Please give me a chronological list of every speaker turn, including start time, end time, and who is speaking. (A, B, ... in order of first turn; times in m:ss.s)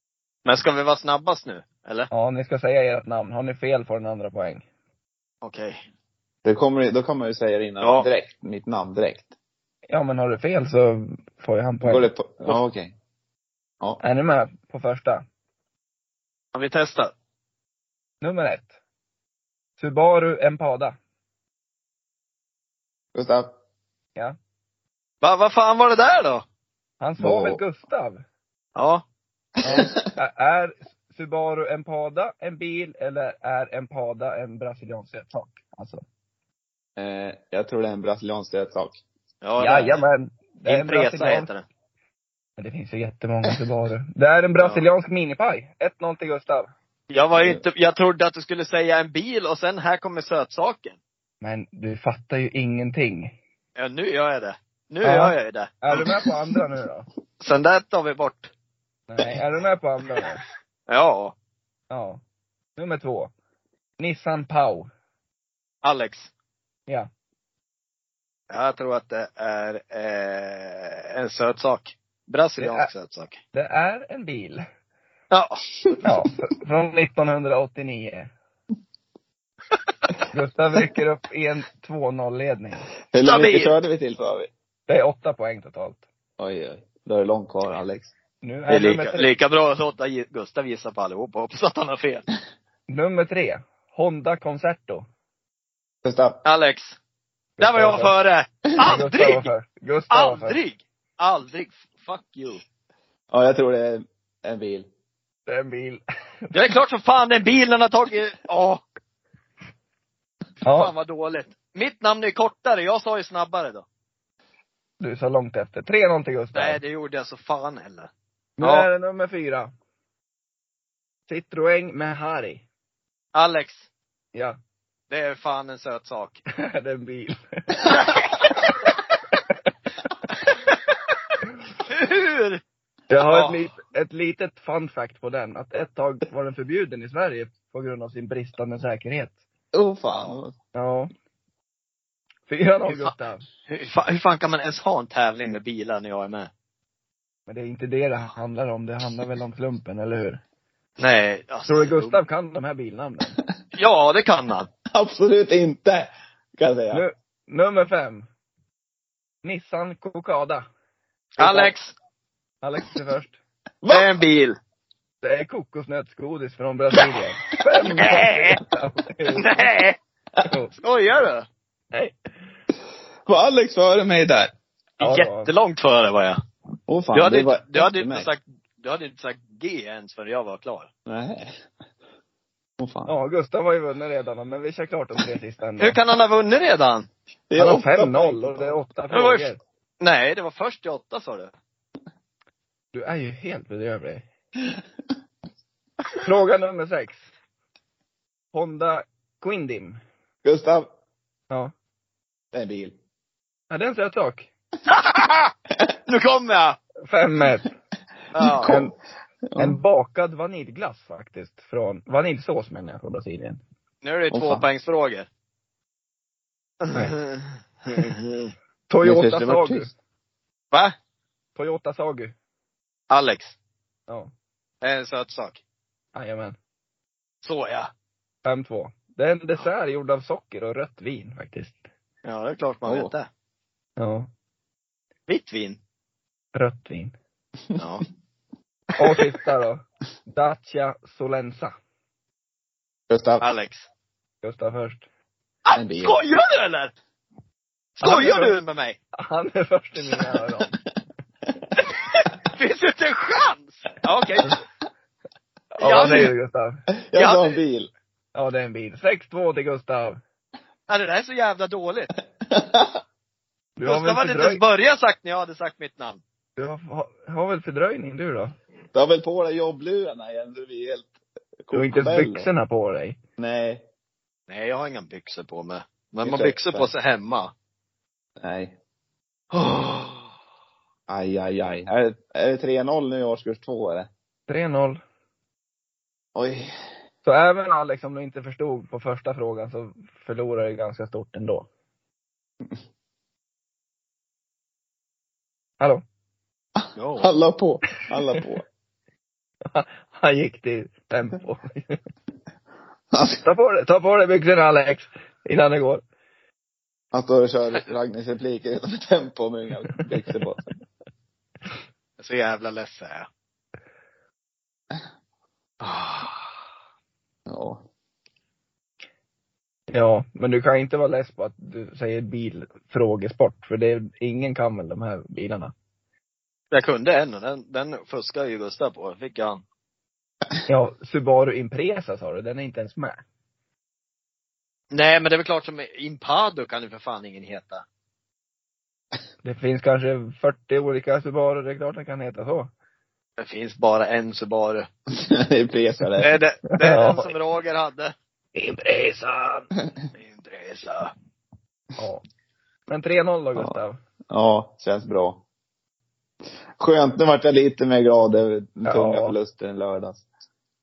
0:00.4-0:02.1 A
0:02.1-0:04.6 B
0:05.4-0:05.8 A
0:06.4-0:09.3 C
0:07.8-0:08.1 A
0:09.9-0:12.6 B
0:11.8-0:12.9 C
0:14.0-0:15.2 B
0:16.5-0:17.1 A
0:18.2-0:18.7 B
0:19.8-0:21.0 B
0:23.2-0:23.5 C
0:25.2-0:26.4 A
0:27.0-0:28.2 B
0:27.2-0:27.6 C
0:28.8-0:29.0 A
0:29.6-0:30.0 C
0:29.6-0:36.0 B
0:37.0-0:39.0 C
0:39.4-0:40.0 A
0:39.6-0:41.5 B
0:40.7-0:41.6 A
0:42.6-0:46.7 B
0:44.6-0:44.8 A
0:47.1-0:51.0 A
0:51.4-0:53.3 B
0:53.8-0:55.7 A
0:55.0-0:57.1 B
0:57.4-0:58.5 A
0:59.1-1:00.4 B
1:00.9-1:01.4 A
1:01.9-1:02.2 B
1:02.8-1:03.3 B
1:04.0-1:04.9 B
1:05.8-1:06.3 A
1:08.5-1:13.4 A
1:12.6-1:12.9 B
1:13.5-1:14.6 B
1:15.3-1:16.0 A
1:16.0-1:18.3 B
1:20.3-1:22.9 B
1:23.1-1:24.5 C
1:23.2-1:23.8 A
1:24.9-1:26.0 B
1:26.4-1:28.1 C
1:28.4-1:29.3 B
1:28.7-1:32.3 A
1:32.9-1:35.0 B
1:36.0-1:36.4 C
1:36.4-1:37.0 A
1:37.6-1:38.1 B
1:37.6-1:39.5 A
1:38.8-1:40.6 B
1:40.1-1:42.6 A
1:43.3-1:44.9 C
1:45.5-1:46.5 B
1:46.5-1:48.8 A
1:50.6-1:50.9 B
1:50.6-1:53.8 A
1:55.0-1:56.8 B
1:56.5-1:58.1 A
1:58.6-1:59.7 B
1:58.6-1:58.9 A
2:01.3-2:02.6 B
2:03.4-2:03.9 A
2:05.1-2:06.4 A
2:06.6-2:08.2 B
2:11.9-2:12.6 A
2:13.1-2:19.4 B
2:13.3-2:13.7 A
2:19.7-2:20.5 C
2:20.7-2:21.1 B
2:22.5-2:23.4 B
2:23.7-2:26.5 A
2:27.5-2:30.4 B
2:31.0-2:32.2 A
2:31.7-2:33.4 B
2:33.8-2:34.7 A
2:34.9-2:37.0 C
2:36.9-2:38.3 B
2:39.4-2:40.7 B
2:41.4-2:41.7 B
2:41.4-2:41.9 A
2:42.6-2:43.4 B
2:43.8-2:44.1 C
2:43.9-2:44.6 A
2:45.2-2:49.7 B
2:48.0-2:48.6 A
2:49.4-2:50.0 A
2:50.5-2:50.7 B
2:50.8-2:51.5 A
2:53.3-2:54.6 C
2:55.0-2:56.4 A
2:55.0-2:55.5 B
2:56.9-2:58.3 C
2:57.1-3:00.9 A
3:01.1-3:01.5 C
3:02.8-3:03.1 C
3:03.1-3:06.0 B
3:05.8-3:07.1 A
3:07.5-3:08.7 C
3:07.6-3:09.6 B
3:09.1-3:11.5 A
3:12.9-3:14.2 B
3:16.2-3:17.2 B
3:18.5-3:20.0 B
3:20.4-3:20.9 C
3:22.5-3:23.0 C
3:23.7-3:24.5 B
3:24.9-3:25.5 A
3:26.1-3:26.8 A
3:27.0-3:27.7 B
3:28.3-3:28.7 A
3:28.4-3:28.9 C
3:28.5-3:28.9 B
3:29.5-3:29.8 C
3:29.6-3:33.6 B
3:34.0-3:35.3 A
3:34.3-3:34.6 C
3:36.8-3:38.5 A
3:38.9-3:39.9 B
3:39.0-3:39.9 C
3:41.6-3:42.4 B
3:43.1-3:43.6 A
3:44.8-3:45.6 A
3:46.1-3:46.6 B
3:47.4-3:47.9 A
3:48.4-3:51.8 B
3:52.2-3:53.3 A
3:52.8-3:53.1 C
3:54.0-3:54.3 B
3:55.3-3:55.8 A
3:56.6-3:57.1 B
3:57.8-3:58.0 A
3:59.0-4:01.7 B
4:03.1-4:03.4 C
4:03.4-4:03.9 A
4:04.4-4:05.0 B
4:05.7-4:06.9 A
4:05.8-4:06.2 C
4:08.0-4:09.0 A
4:08.0-4:08.6 B
4:09.2-4:10.8 B
4:11.9-4:14.6 A
4:15.8-4:16.3 A
4:15.8-4:16.8 B
4:17.0-4:17.9 C
4:17.2-4:17.6 A
4:18.4-4:20.2 B
4:20.9-4:22.1 A
4:22.5-4:23.0 C
4:23.8-4:24.6 B
4:23.8-4:26.2 A
4:26.6-4:28.6 B
4:28.9-4:32.5 C
4:31.7-4:33.2 B
4:33.4-4:33.8 C
4:34.5-4:37.5 A
4:36.2-4:36.9 C
4:38.4-4:38.8 C
4:39.5-4:40.2 A
4:41.1-4:44.1 C
4:44.5-4:45.0 B
4:46.4-4:46.7 C
4:47.2-4:51.7 B
4:57.0-4:57.3 A
4:57.2-4:58.6 C
4:59.7-5:02.0 B
5:03.1-5:03.4 C
5:03.4-5:06.0 B
5:07.1-5:10.7 C
5:12.2-5:13.3 A
5:15.8-5:16.5 A
5:17.5-5:17.8 C
5:19.9-5:25.7 B
5:26.7-5:29.6 A
5:30.7-5:33.2 B
5:34.9-5:37.8 A
5:39.4-5:42.7 B
5:43.4-5:44.9 A
5:45.1-5:46.3 C
5:46.2-5:48.1 A
5:46.8-5:47.3 B
5:48.6-5:49.7 B
5:50.2-5:51.1 A
5:52.9-5:54.0 B
5:54.3-5:55.4 C
5:56.8-6:00.2 C
5:58.8-5:59.4 B